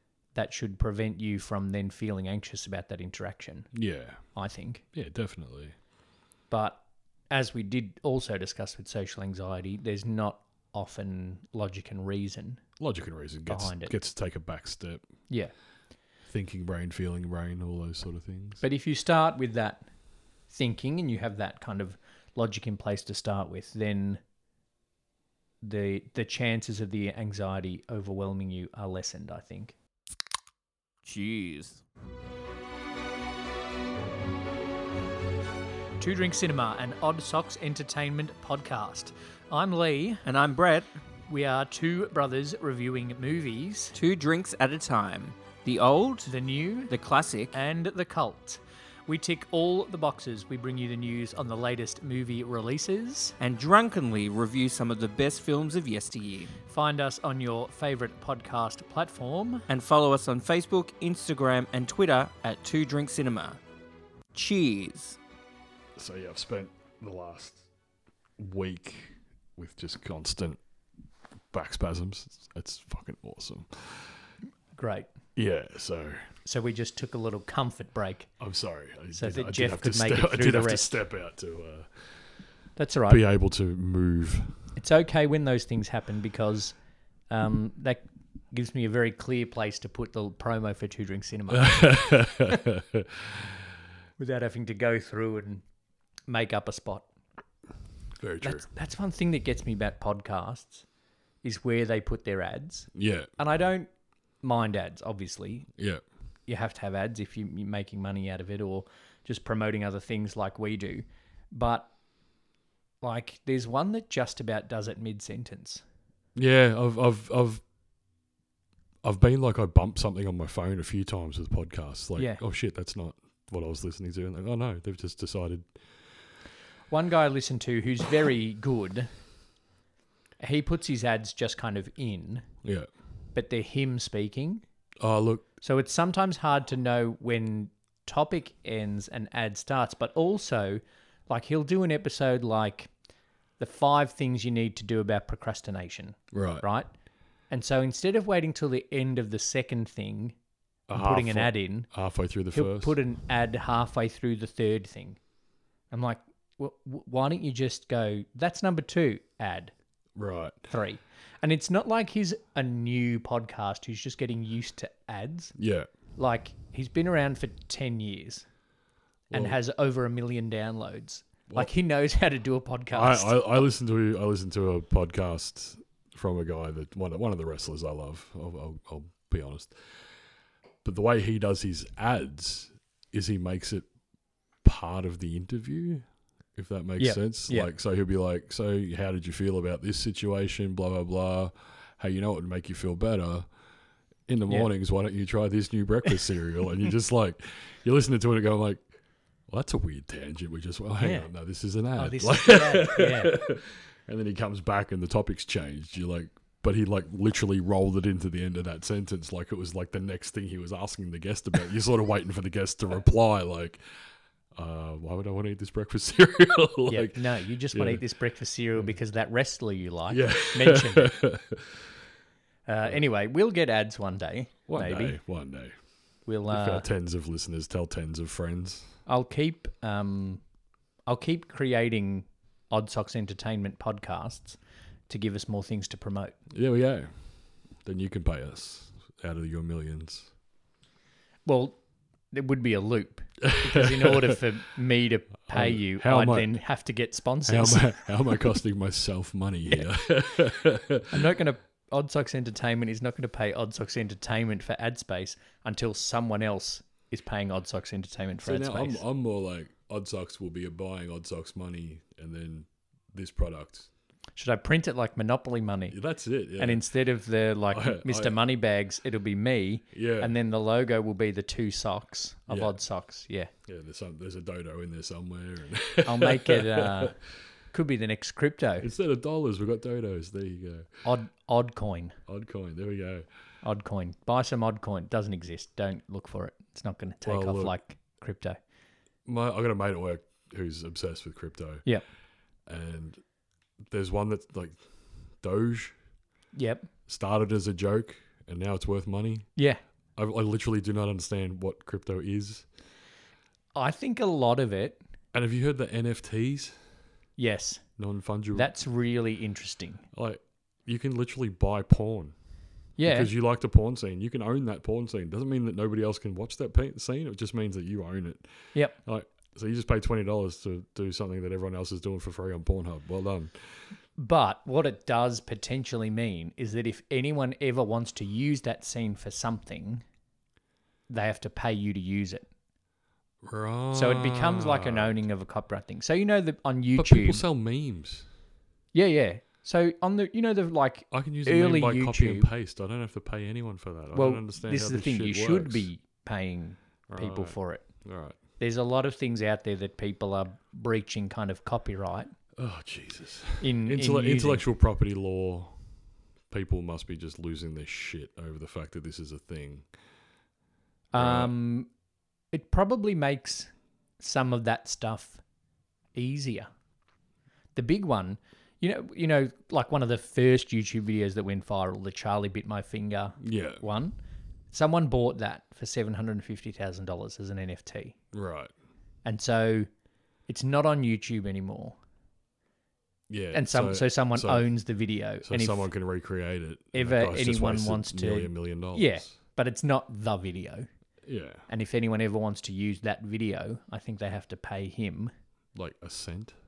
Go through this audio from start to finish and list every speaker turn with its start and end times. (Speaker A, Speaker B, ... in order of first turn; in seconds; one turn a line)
Speaker A: 0.3-3.7
Speaker B: 3.7-4.3
Speaker A: 4.3-4.8
Speaker B: 4.9-5.7
Speaker A: 6.5-12.6
Speaker B: 12.8-15.1
Speaker A: 13.5-13.9
Speaker B: 16.2-18.6
Speaker A: 18.6-19.9
Speaker A: 20.5-24.2
Speaker A: 25.6-29.7
Speaker C: 31.0-31.8
Speaker A: 36.0-40.2
Speaker C: 40.2-40.9
Speaker A: 41.3-44.0
Speaker C: 43.9-46.3
Speaker A: 46.2-46.9
Speaker C: 46.9-47.6
Speaker A: 47.5-53.4
Speaker C: 53.4-56.6
Speaker A: 56.7-59.7
Speaker C: 59.7-63.6
Speaker C: 64.3-65.2
Speaker B: 66.0-67.6
Speaker B: 68.4-70.6
Speaker B: 71.5-74.2
Speaker A: 74.7-75.1
Speaker B: 75.3-76.3
Speaker A: 76.4-78.3
Speaker B: 78.4-82.2
Speaker A: 79.1-80.9
Speaker A: 82.8-83.2
Speaker B: 83.1-84.6
Speaker A: 84.8-86.7
Speaker A: 87.3-92.0
Speaker B: 91.5-93.5
Speaker A: 94.2-95.6
Speaker A: 96.3-97.1
Speaker B: 98.2-98.6
Speaker A: 98.4-100.8
Speaker A: 101.4-103.9
Speaker B: 102.9-103.3
Speaker A: 104.4-105.7
Speaker A: 106.5-111.9
Speaker A: 113.0-115.8
Speaker B: 116.3-117.6
Speaker B: 119.0-125.7
Speaker A: 126.9-129.1
Speaker A: 130.4-132.4
Speaker A: 133.3-134.6
Speaker B: 135.0-135.4
Speaker A: 135.6-142.9
Speaker A: 143.6-146.9
Speaker B: 146.3-146.6
Speaker A: 147.5-150.3
Speaker B: 150.9-153.0
Speaker A: 150.9-151.9
Speaker A: 152.5-155.2
Speaker A: 155.9-159.7
Speaker B: 160.2-160.7
Speaker A: 160.7-165.5
Speaker B: 165.6-165.9
Speaker A: 166.2-168.4
Speaker B: 169.3-169.6
Speaker A: 169.3-173.6
Speaker B: 172.9-179.7
Speaker B: 180.8-183.9
Speaker B: 184.6-193.5
Speaker A: 187.0-187.7
Speaker B: 194.3-198.8
Speaker B: 199.5-213.8
Speaker A: 201.0-201.3
Speaker A: 202.0-203.4
Speaker B: 214.5-218.0
Speaker A: 216.9-221.1
Speaker B: 220.1-221.6
Speaker A: 222.7-225.2
Speaker B: 224.7-225.7
Speaker A: 226.2-226.8
Speaker B: 226.5-229.0
Speaker A: 229.1-230.4
Speaker A: 231.1-234.6
Speaker A: 235.1-236.3
Speaker B: 236.5-237.1
Speaker B: 237.8-240.3
Speaker A: 241.4-241.8
Speaker A: 242.3-248.3
Speaker B: 243.4-244.4
Speaker B: 245.5-246.6
Speaker B: 247.4-251.2
Speaker A: 251.1-259.0
Speaker B: 258.4-263.9
Speaker A: 264.4-266.0
Speaker B: 265.9-266.8
Speaker A: 266.6-273.5
Speaker B: 267.7-268.4
Speaker B: 269.9-270.3
Speaker B: 272.5-272.8
Speaker B: 273.7-277.1
Speaker A: 276.0-277.1
Speaker A: 277.7-278.9
Speaker B: 278.8-280.9
Speaker A: 281.0-282.2
Speaker B: 282.3-283.2
Speaker A: 283.6-288.6
Speaker B: 287.2-287.7
Speaker B: 289.2-291.9
Speaker B: 292.7-293.2
Speaker B: 293.9-294.8
Speaker B: 295.4-295.9
Speaker A: 296.5-296.9
Speaker B: 297.1-299.5
Speaker A: 299.6-299.8
Speaker B: 300.1-302.7
Speaker A: 303.7-305.0
Speaker B: 305.3-306.7
Speaker A: 307.4-307.8
Speaker B: 308.0-308.7
Speaker A: 308.5-310.0
Speaker B: 310.1-312.3
Speaker A: 313.0-313.3
Speaker B: 313.0-323.6
Speaker A: 324.2-330.0
Speaker A: 331.1-332.5
Speaker B: 333.4-335.1
Speaker A: 333.9-337.4
Speaker B: 337.0-338.2
Speaker A: 338.9-342.5
Speaker B: 341.1-345.9
Speaker A: 344.1-347.9
Speaker B: 347.1-348.4
Speaker A: 348.6-352.3
Speaker B: 352.6-355.8
Speaker A: 353.6-354.6
Speaker B: 356.5-359.9
Speaker A: 361.1-361.9
Speaker B: 361.1-361.5
Speaker A: 362.5-365.4
Speaker A: 366.1-366.7
Speaker A: 367.7-374.1
Speaker B: 373.4-373.8
Speaker A: 374.7-378.1
Speaker B: 378.3-378.7
Speaker A: 379.2-379.9
Speaker A: 380.5-382.0
Speaker B: 383.3-384.7
Speaker A: 383.5-385.9
Speaker B: 385.4-389.3
Speaker A: 386.9-390.9
Speaker B: 391.2-391.7
Speaker A: 391.7-395.3
Speaker B: 395.7-396.5